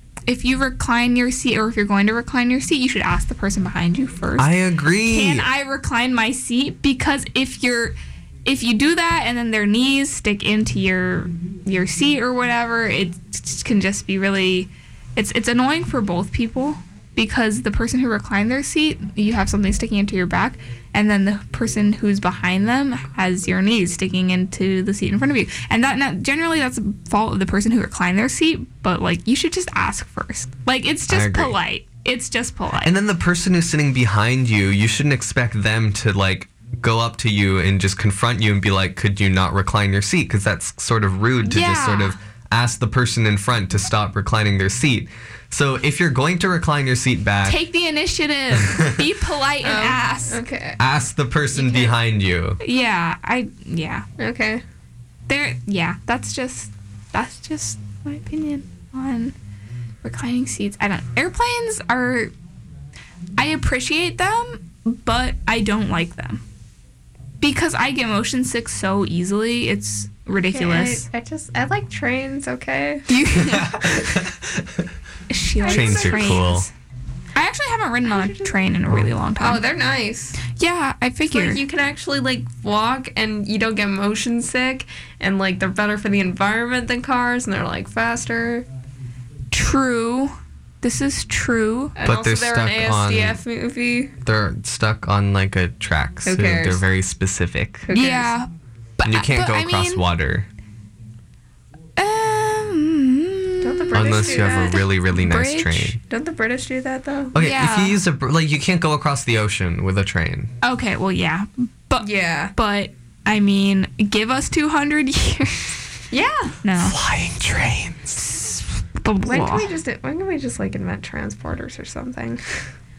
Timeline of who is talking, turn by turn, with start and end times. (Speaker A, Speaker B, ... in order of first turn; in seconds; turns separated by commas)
Speaker A: 0.3-33.0, Speaker B: 4.4-5.5, Speaker B: 31.1-31.6, Speaker B: 32.8-47.6, Speaker A: 41.4-42.2, Speaker A: 47.5-50.4, Speaker B: 48.5-49.0, Speaker C: 49.6-50.8, Speaker B: 50.8-52.6, Speaker A: 51.5-52.0, Speaker A: 52.6-54.0, Speaker C: 54.2-54.6, Speaker A: 55.3-59.3, Speaker A: 60.0-62.3, Speaker A: 63.4-66.4, Speaker A: 67.4-71.0, Speaker C: 70.5-73.1, Speaker A: 73.1-74.0, Speaker B: 73.3-74.9, Speaker A: 75.3-76.7, Speaker C: 75.6-76.5, Speaker B: 75.7-76.7, Speaker A: 77.3-79.6, Speaker C: 78.1-78.8, Speaker C: 79.4-80.4, Speaker A: 80.4-81.6, Speaker C: 81.3-88.7, Speaker A: 89.5-92.0, Speaker C: 92.0-94.1, Speaker B: 92.0-93.4, Speaker B: 94.2-97.9, Speaker C: 96.2-96.8, Speaker C: 97.9-98.3, Speaker A: 97.9-100.0, Speaker B: 99.0-100.5, Speaker A: 102.0-106.0, Speaker C: 103.6-104.8, Speaker B: 103.9-106.0, Speaker C: 106.1-107.3, Speaker B: 107.3-110.5, Speaker A: 107.4-108.0, Speaker A: 110.6-115.8, Speaker C: 112.0-112.5, Speaker C: 116.1-116.6, Speaker A: 116.6-117.0, Speaker B: 116.8-118.2, Speaker A: 118.2-119.7, Speaker C: 119.2-122.4